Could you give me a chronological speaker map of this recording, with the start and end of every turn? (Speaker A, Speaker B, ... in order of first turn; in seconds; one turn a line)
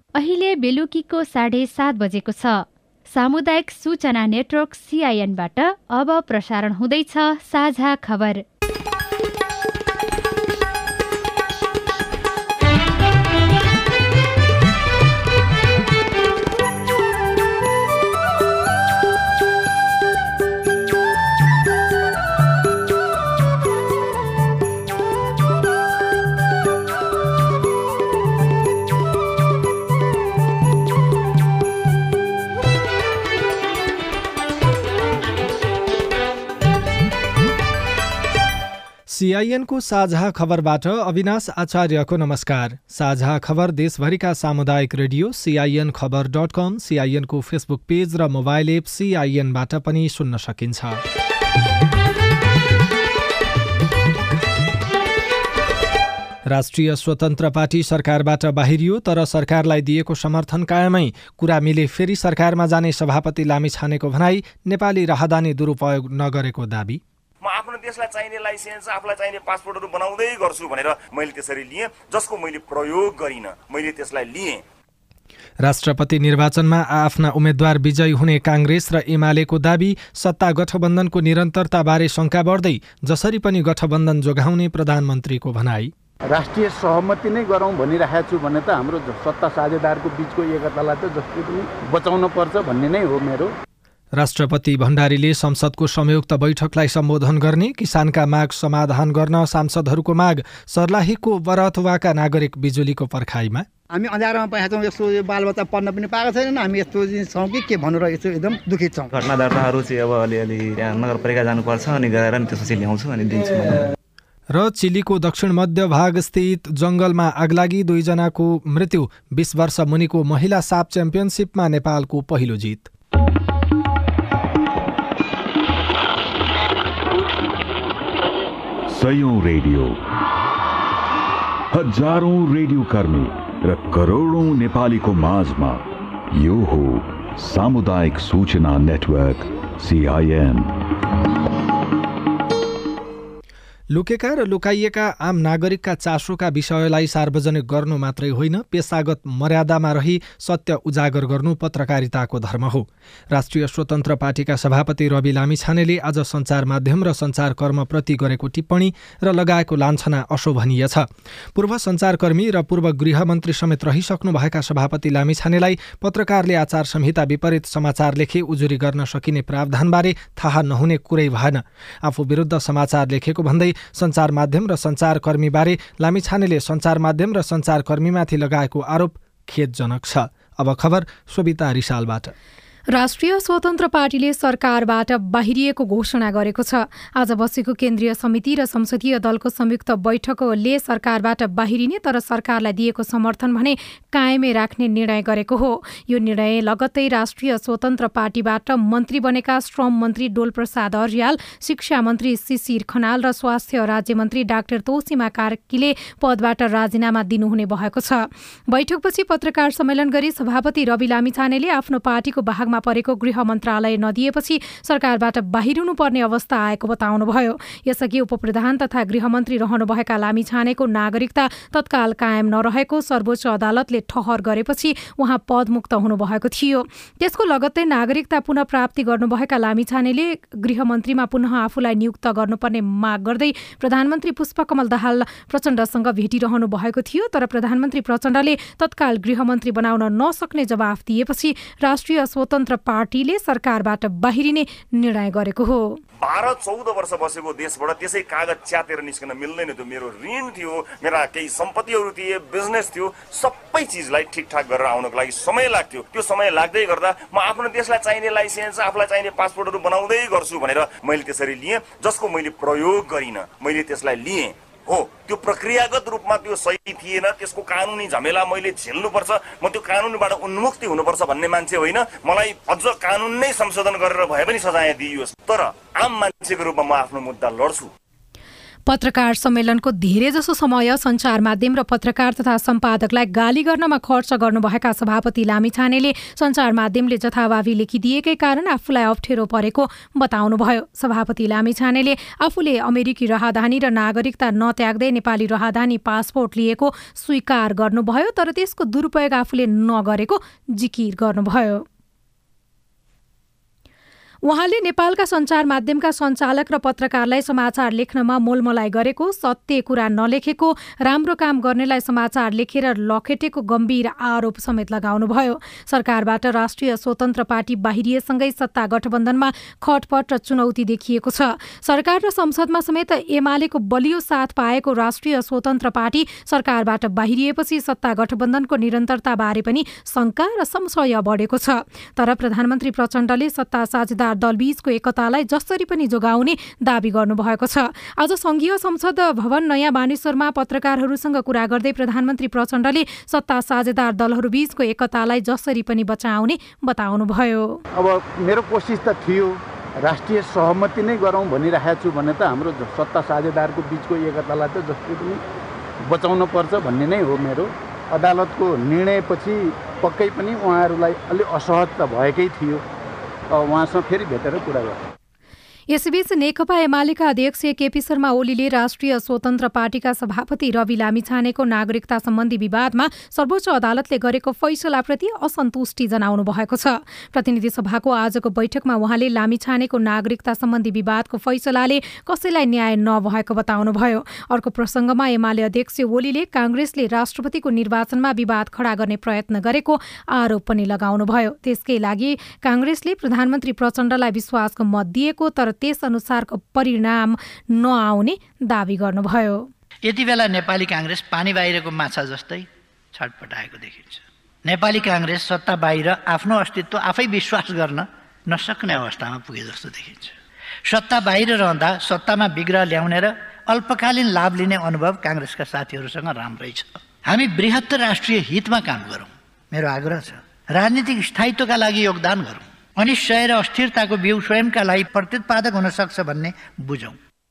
Speaker A: 0.1-8.4
Speaker B: 39.1-51.0
Speaker B: 56.5-67.0
Speaker C: 67.4-74.6
Speaker B: 75.6-85.9
Speaker D: 88.9-90.0
Speaker D: 90.6-91.8
Speaker B: 94.2-103.7
Speaker E: 103.9-109.4
Speaker F: 109.7-110.2
Speaker F: 110.9-112.4
Speaker B: 114.5-122.9
Speaker G: 128.9-130.0
Speaker G: 131.7-140.7
Speaker B: 143.9-182.3
Speaker H: 182.9-246.0
Speaker C: 246.2-277.9
Speaker H: 278.9-301.8
Speaker H: 304.4-347.8
Speaker D: 348.0-349.5
Speaker D: 350.1-355.3
Speaker D: 356.2-356.8
Speaker D: 358.2-359.5
Speaker D: 360.1-362.8
Speaker D: 363.7-364.9
Speaker H: 365.9-399.7
Speaker I: 400.0-410.3
Speaker I: 410.9-427.1